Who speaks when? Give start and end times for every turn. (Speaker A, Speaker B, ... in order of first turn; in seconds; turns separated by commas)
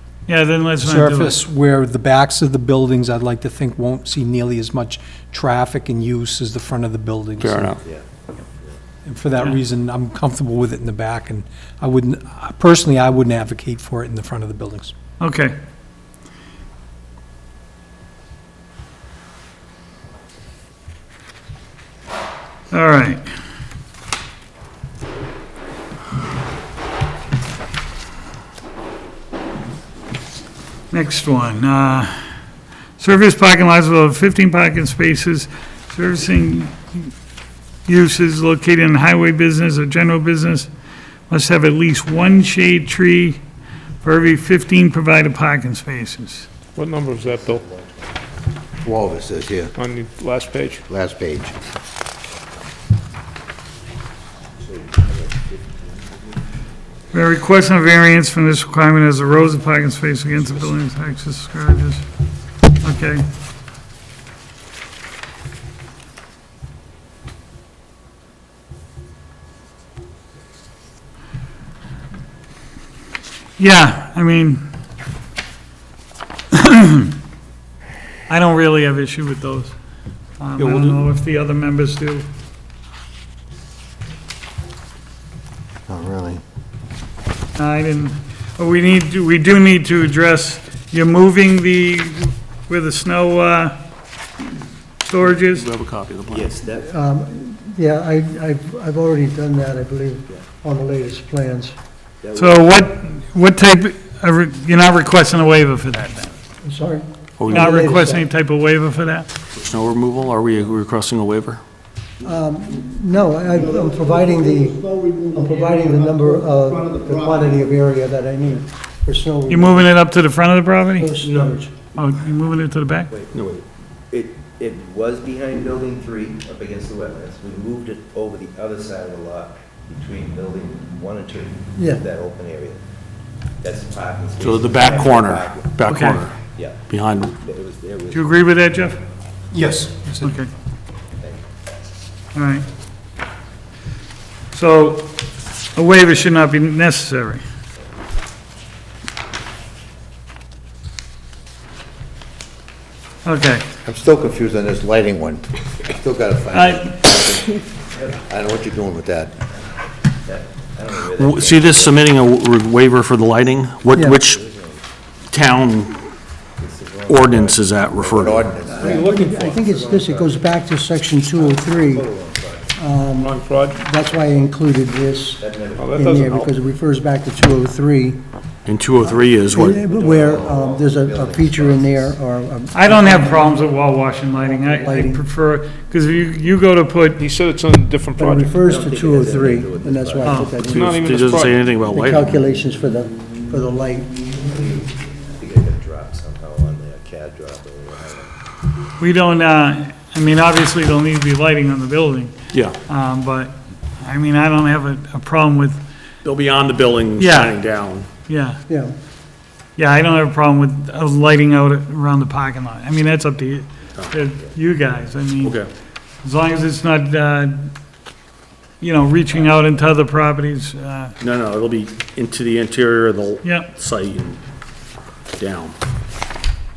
Speaker A: 0.3-1.4, Speaker B: 0.8-7.8, Speaker C: 7.4-7.8, Speaker B: 9.1-14.9, Speaker A: 15.2-15.6, Speaker A: 22.7-23.2, Speaker A: 30.9-32.2, Speaker A: 33.0-37.1, Speaker A: 37.9-40.7, Speaker A: 41.3-43.4, Speaker A: 44.0-46.5, Speaker D: 46.8-47.6, Speaker E: 47.1-48.2, Speaker F: 48.8-49.8, Speaker D: 49.8-50.8, Speaker F: 50.9-51.6, Speaker E: 54.6-55.8, Speaker A: 57.1-62.0, Speaker A: 62.8-63.2, Speaker A: 73.6-74.7, Speaker A: 76.5-77.1, Speaker A: 78.3-79.8, Speaker A: 80.4-82.3, Speaker C: 80.6-81.0, Speaker F: 85.9-86.4, Speaker A: 87.6-93.8, Speaker A: 95.0-95.7, Speaker C: 95.4-96.5, Speaker E: 96.3-96.9, Speaker G: 96.9-101.8, Speaker E: 102.2-102.8, Speaker A: 102.3-106.3, Speaker G: 106.6-108.3, Speaker C: 107.4-107.8, Speaker A: 107.5-109.3, Speaker C: 109.6-111.6, Speaker G: 112.2-114.8, Speaker E: 113.6-117.6, Speaker G: 115.3-119.9, Speaker A: 119.5-121.1, Speaker G: 121.0-121.7, Speaker A: 122.0-123.1, Speaker E: 123.1-132.8, Speaker C: 123.3-123.6, Speaker G: 131.8-132.0, Speaker E: 133.6-135.8, Speaker C: 134.4-137.4, Speaker A: 135.9-136.2, Speaker E: 136.5-138.3, Speaker A: 138.1-139.0, Speaker B: 139.5-140.4, Speaker A: 140.2-140.5, Speaker E: 141.2-141.4, Speaker A: 142.3-142.7, Speaker A: 144.5-145.2, Speaker A: 145.8-147.4, Speaker A: 153.2-153.7, Speaker F: 153.8-157.6, Speaker A: 156.5-157.0, Speaker E: 157.9-158.2, Speaker F: 158.2-159.4, Speaker E: 160.2-162.0, Speaker C: 161.2-164.4, Speaker G: 163.9-164.2, Speaker E: 164.2-164.8, Speaker C: 165.3-166.0, Speaker E: 166.6-167.6, Speaker C: 167.1-168.5, Speaker F: 168.0-169.1, Speaker E: 168.6-170.5, Speaker G: 168.8-172.1, Speaker D: 168.8-169.5, Speaker E: 171.3-173.3, Speaker G: 172.8-178.2, Speaker D: 173.2-173.8, Speaker E: 174.1-174.5, Speaker E: 175.4-176.3, Speaker D: 175.8-176.5, Speaker C: 178.7-179.9, Speaker E: 179.2-182.2, Speaker G: 179.5-183.5, Speaker A: 182.7-187.2, Speaker G: 184.5-185.2, Speaker D: 187.2-188.6, Speaker G: 188.2-194.3, Speaker E: 188.6-190.8, Speaker A: 190.2-190.7, Speaker D: 190.7-191.7, Speaker C: 190.8-192.3, Speaker E: 194.5-198.3, Speaker A: 199.0-205.8, Speaker C: 202.5-202.8, Speaker C: 206.2-208.1, Speaker A: 207.2-207.6, Speaker A: 208.2-208.6, Speaker G: 208.7-208.9, Speaker A: 209.8-215.6, Speaker C: 215.4-215.7, Speaker A: 216.2-217.7, Speaker A: 218.8-221.1, Speaker C: 221.2-224.4, Speaker A: 223.4-223.7, Speaker C: 225.3-225.8